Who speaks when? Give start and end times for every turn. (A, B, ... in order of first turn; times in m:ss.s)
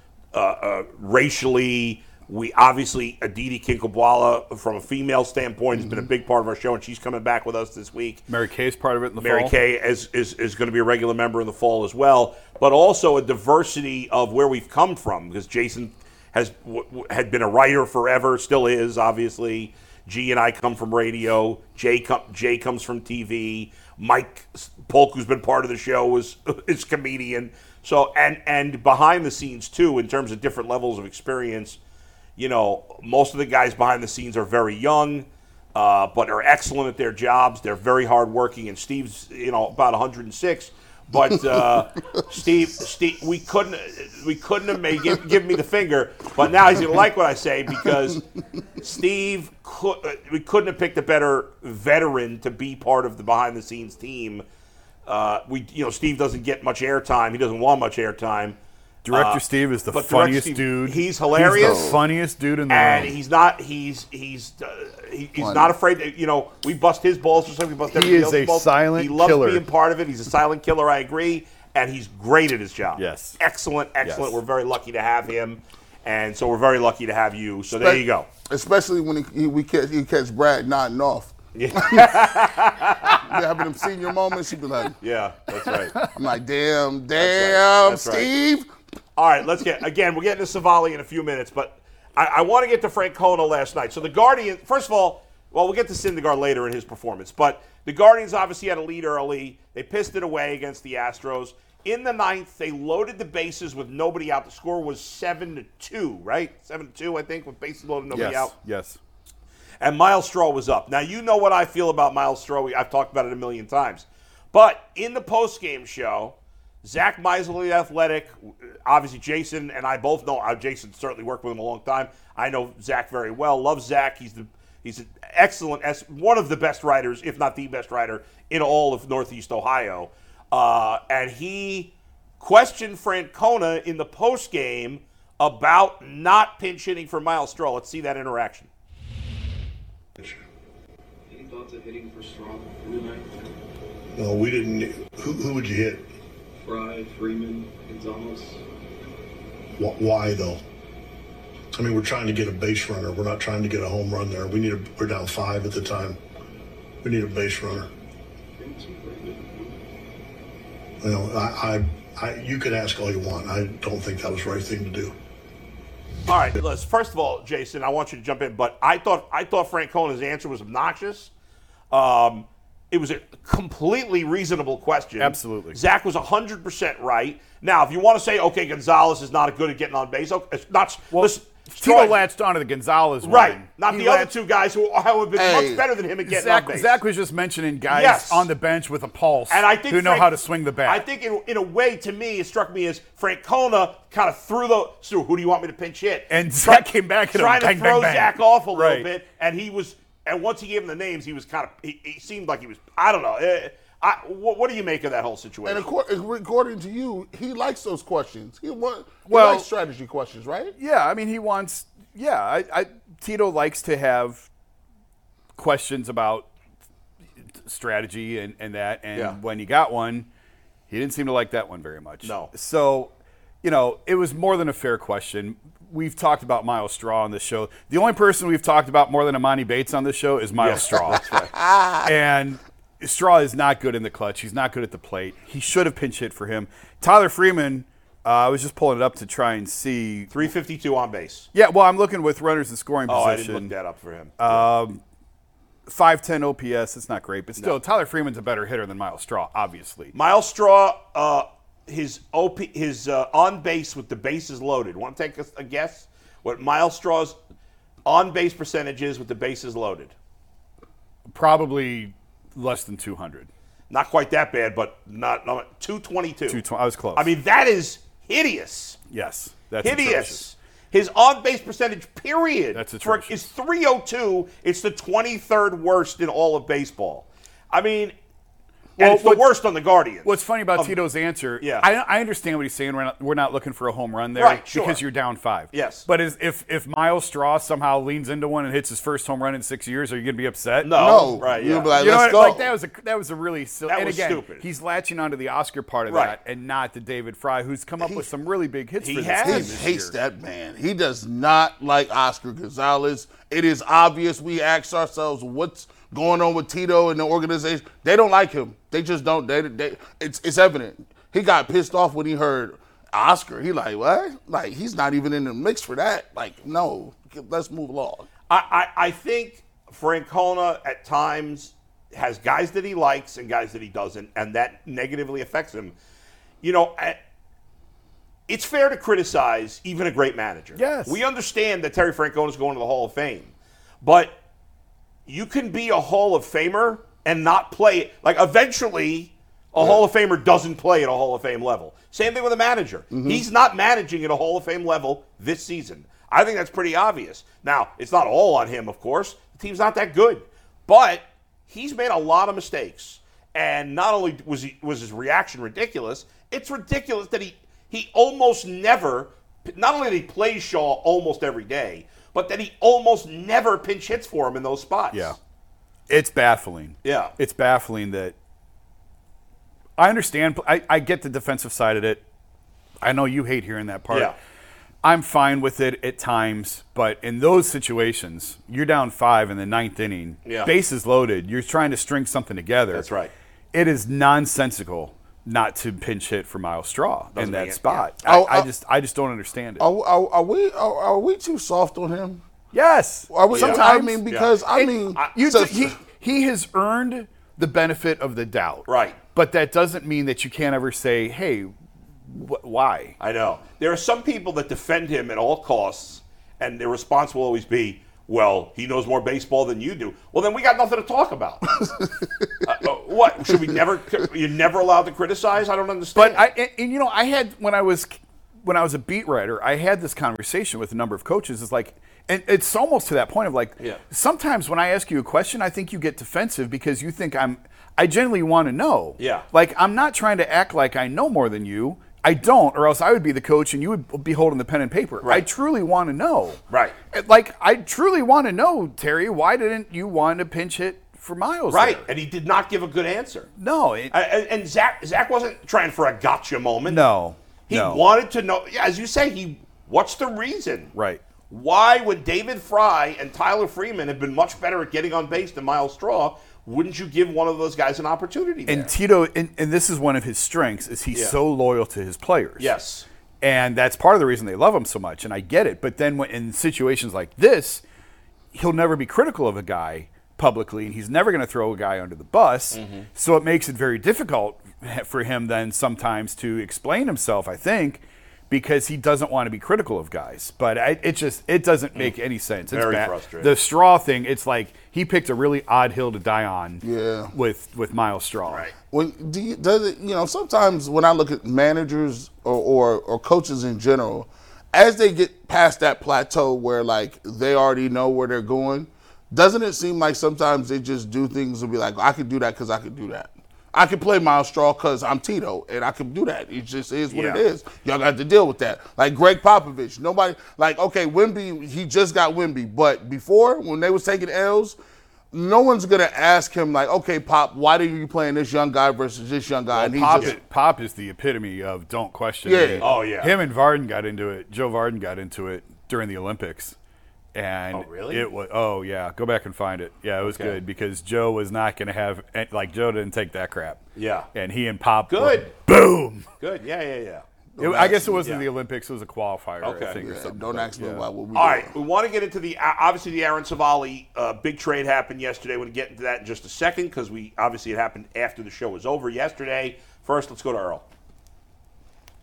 0:00.3-0:08.3 A
0:08.3-0:09.5 B
0:09.2-0:31.8 A
0:32.4-0:48.2 A
0:48.8-0:54.4 A
0:55.1-0:58.6 A
0:59.0-1:03.1 B
0:59.1-1:02.0 A
1:01.6-1:02.0 C
1:02.7-1:18.3 A
1:05.4-1:05.7 C
1:07.9-1:09.6 B
1:13.0-1:13.4 B
1:14.0-1:14.4 B
1:17.8-1:22.2 C
1:21.6-1:23.4 A
1:23.1-1:25.0 C
1:25.0-1:26.0 A
1:26.0-1:28.7 C
1:27.2-1:28.3 A
1:29.2-1:48.5 A
1:48.1-1:49.0 B
1:49.8-2:18.7 A
2:21.3-2:23.5 D
2:24.2-2:26.1 E
2:26.6-2:28.6 D
2:29.8-2:30.6 E
2:31.7-2:36.2 E
2:37.0-2:37.9 E
2:38.6-2:39.8 D
2:41.0-2:45.1 E
2:46.3-2:51.3 A
2:51.9-3:02.2 A
2:55.2-2:55.8 B
3:01.1-3:04.3 B
3:03.2-3:07.0 A
3:05.4-3:05.9 C
3:06.3-3:11.0 B
3:07.9-3:08.5 A
3:09.5-3:10.3 A
3:10.8-3:25.9 A
3:16.3-3:19.1 B
3:25.6-3:30.8 C
3:29.3-3:29.7 B
3:30.8-3:34.4 B
3:35.6-3:36.5 B
3:37.6-3:40.3 B
3:40.9-3:43.1 B
3:42.2-3:42.5 A
3:43.6-3:51.3 B
3:50.6-3:51.5 A
3:51.5-3:52.1 C
3:52.0-4:00.3 B
4:00.3-4:01.5 A
4:01.5-4:03.7 B
4:03.1-4:04.6 A
4:04.4-4:05.0 B
4:05.9-4:10.1 B
4:10.1-4:17.4 A
4:18.0-4:20.1 A
4:21.3-4:23.5 B
4:23.9-4:26.6 A
4:26.5-4:27.3 B
4:27.2-4:29.0 A
4:29.1-4:30.4 B
4:29.8-4:38.1 A
4:32.8-4:33.4 B
4:39.0-4:39.4 B
4:39.0-4:41.0 A
4:40.2-5:00.2 B
4:41.6-4:41.9 A
4:44.4-4:45.0 A
4:45.7-4:46.1 A
4:50.8-4:51.9 A
4:51.0-4:52.7 C
4:53.9-4:54.6 A
4:56.1-4:56.4 A
4:58.0-4:58.3 C
4:59.0-4:59.8 A
4:59.4-5:18.3 C
5:18.5-5:25.9 A
5:26.6-5:27.2 A
5:28.5-5:34.4 A
5:30.8-5:31.2 B
5:35.3-6:05.4 A
5:43.1-5:43.4 C
6:05.1-6:05.4 B
6:06.1-6:08.4 B
6:07.0-6:07.4 A
6:10.0-6:12.2 B
6:13.0-6:14.3 B
6:14.1-6:14.4 A
6:15.0-6:23.1 B
6:20.4-6:20.7 A
6:22.9-6:23.3 A
6:23.7-6:29.8 B
6:27.4-6:28.4 A
6:28.3-6:28.7 C
6:29.8-6:32.4 C
6:32.7-6:34.2 B
6:33.3-6:36.0 C
6:33.5-6:35.6 A
6:35.3-6:41.7 B
6:38.9-6:39.2 A
6:42.3-6:43.2 B
6:43.2-6:51.8 A
6:52.6-6:56.5 A
6:56.2-7:16.6 B
7:09.2-7:09.5 A
7:16.7-7:17.0 A
7:17.1-7:22.0 B
7:21.7-7:23.5 A
7:23.6-7:24.1 B
7:24.1-7:27.0 A
7:26.9-7:28.0 B
7:27.7-7:30.9 A
7:31.0-7:31.2 B
7:31.5-7:38.9 A
7:38.7-7:42.7 B
7:41.1-7:41.4 A
7:42.6-7:43.1 A
7:43.4-7:47.8 B
7:48.5-8:08.7 B
7:52.7-7:53.1 A
8:02.7-8:03.5 A
8:06.8-8:07.3 C
8:08.9-8:34.8 C
8:27.1-8:27.4 A
8:35.3-8:40.4 C
8:39.7-8:46.8 B
8:42.4-8:42.9 C
8:42.8-8:43.4 A
8:47.3-8:53.8 B
8:47.7-8:48.3 A
8:50.2-8:50.6 A
8:54.0-8:54.3 A
8:54.3-8:56.3 B
8:55.1-8:55.5 A
8:56.4-8:57.2 A
8:57.6-8:58.3 C
8:57.6-9:01.0 B
8:59.6-9:00.0 A
9:00.0-9:01.7 C
9:01.4-9:10.9 A